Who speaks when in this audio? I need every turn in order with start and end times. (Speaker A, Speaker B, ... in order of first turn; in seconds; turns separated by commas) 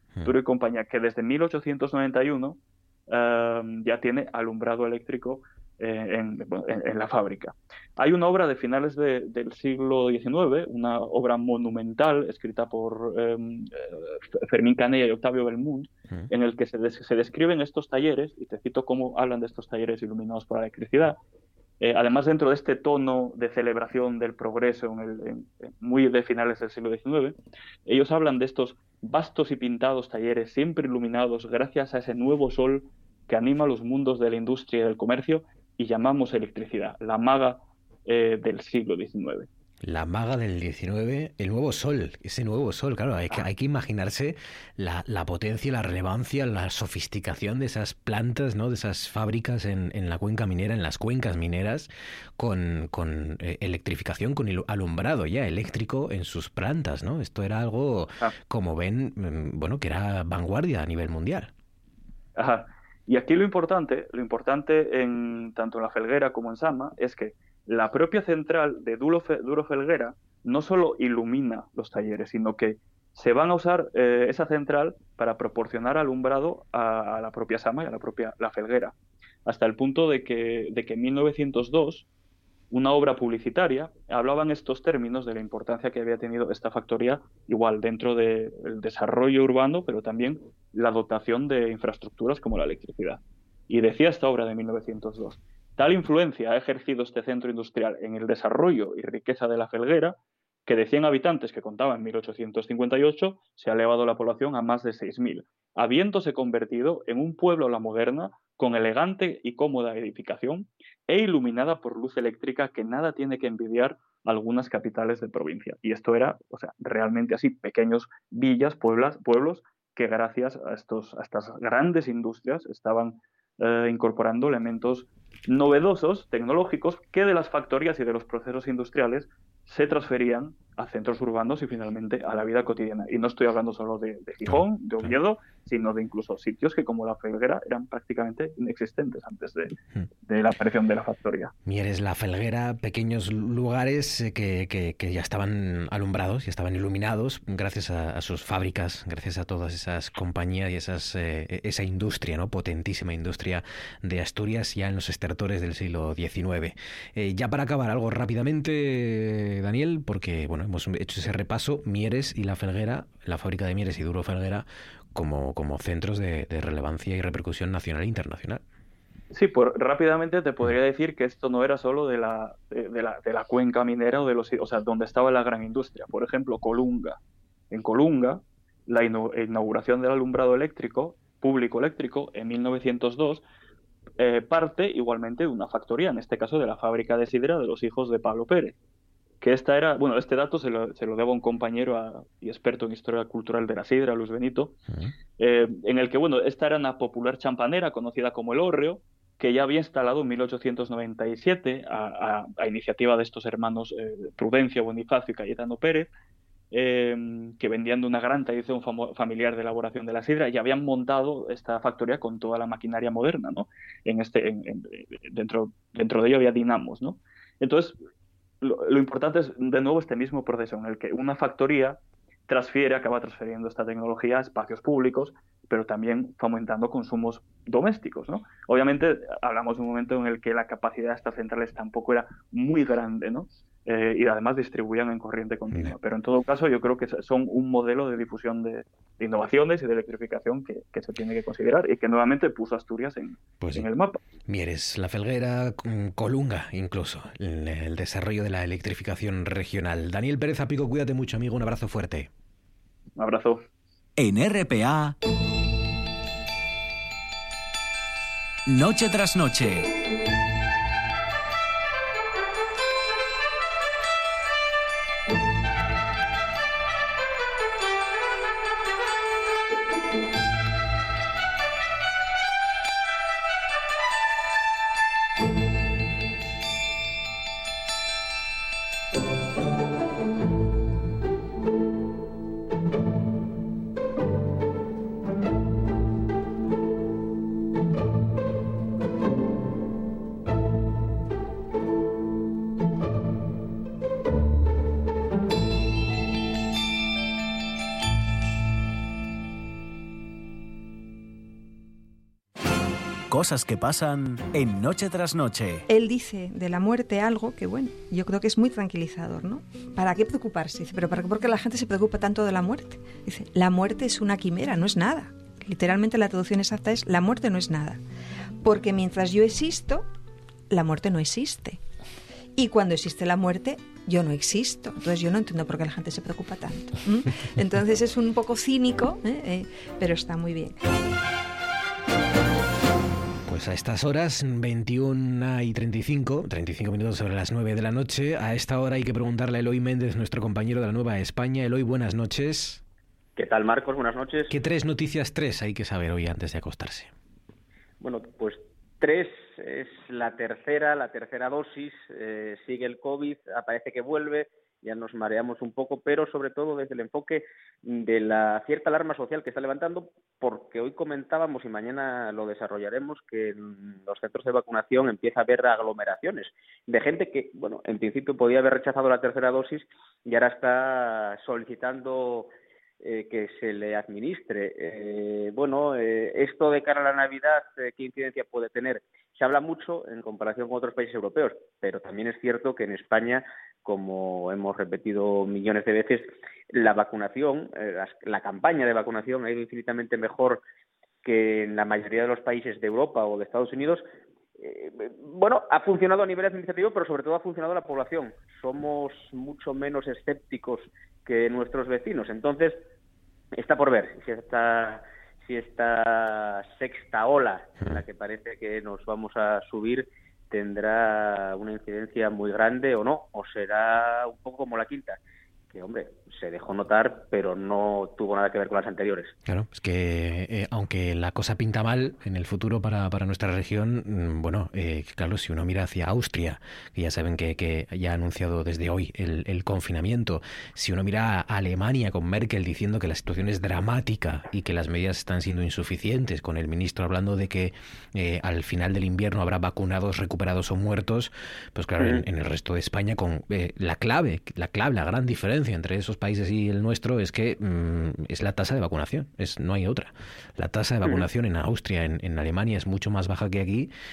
Speaker A: 0.2-21.2, Speaker A: 21.8-39.5, Speaker B: 39.8-61.5, Speaker A: 62.4-78.9, Speaker A: 79.4-82.0, Speaker A: 82.7-139.7, Speaker B: 134.5-135.1, Speaker A: 140.3-141.5, Speaker B: 141.6-168.6, Speaker A: 169.3-177.2, Speaker A: 177.7-183.4, Speaker A: 184.2-188.7, Speaker A: 189.4-194.7, Speaker B: 194.9-195.1, Speaker A: 195.4-206.1, Speaker A: 206.7-217.9, Speaker A: 218.6-244.2, Speaker B: 243.6-243.9, Speaker B: 244.4-252.3, Speaker A: 253.2-253.6, Speaker C: 254.2-255.2, Speaker C: 258.7-259.9, Speaker C: 303.3-305.9, Speaker D: 305.9-318.0, Speaker D: 318.6-320.1, Speaker D: 320.7-321.8, Speaker D: 322.6-330.8, Speaker B: 333.5-342.8, Speaker E: 343.4-344.5, Speaker B: 344.5-347.1, Speaker E: 348.0-372.5, Speaker E: 373.0-390.6, Speaker E: 391.2-394.0, Speaker E: 394.6-402.8, Speaker E: 403.6-415.2, Speaker E: 415.7-419.3, Speaker B: 419.4-453.9